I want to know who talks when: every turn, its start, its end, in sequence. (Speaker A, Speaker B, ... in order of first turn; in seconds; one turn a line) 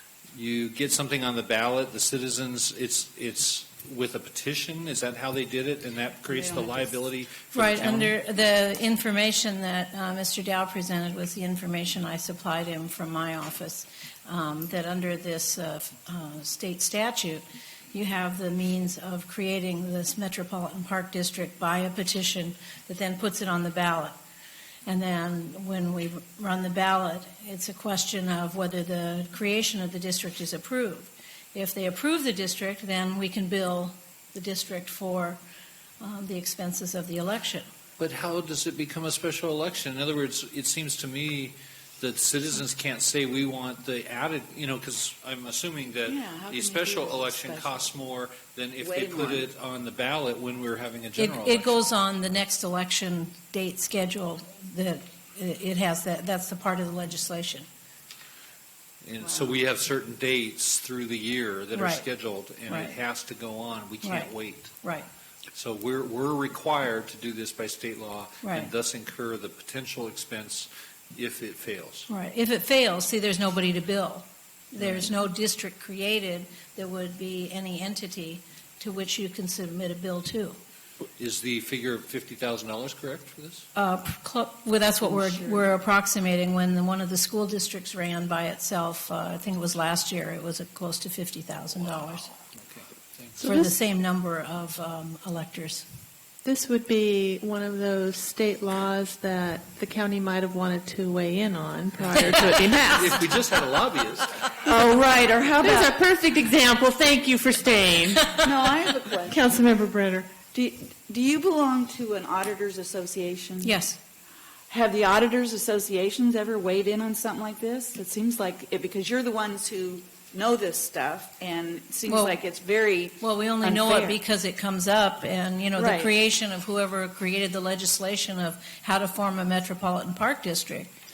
Speaker A: 0.3-8.2
Speaker B: 6.3-6.9
Speaker C: 7.5-24.2
Speaker C: 24.9-35.4
Speaker C: 36.0-37.7
Speaker A: 38.0-51.8
Speaker B: 46.1-48.0
Speaker B: 48.8-49.5
Speaker C: 51.2-57.7
Speaker A: 59.0-64.8
Speaker B: 59.2-59.6
Speaker C: 61.7-62.1
Speaker C: 62.6-63.0
Speaker C: 64.0-65.1
Speaker A: 65.5-72.1
Speaker C: 68.4-68.7
Speaker C: 72.1-80.6
Speaker A: 74.8-75.1
Speaker A: 81.2-83.7
Speaker C: 83.8-92.3
Speaker B: 85.0-85.7
Speaker A: 92.5-93.5
Speaker C: 93.4-95.8
Speaker D: 93.4-93.8
Speaker D: 96.4-103.2
Speaker A: 102.1-104.5
Speaker B: 104.6-106.0
Speaker D: 105.6-108.3
Speaker C: 108.1-108.5
Speaker B: 108.4-109.4
Speaker D: 109.3-110.3
Speaker B: 110.5-113.7
Speaker C: 113.6-114.0
Speaker B: 114.7-124.2
Speaker C: 122.1-122.4
Speaker C: 123.2-130.9
Speaker B: 125.8-126.1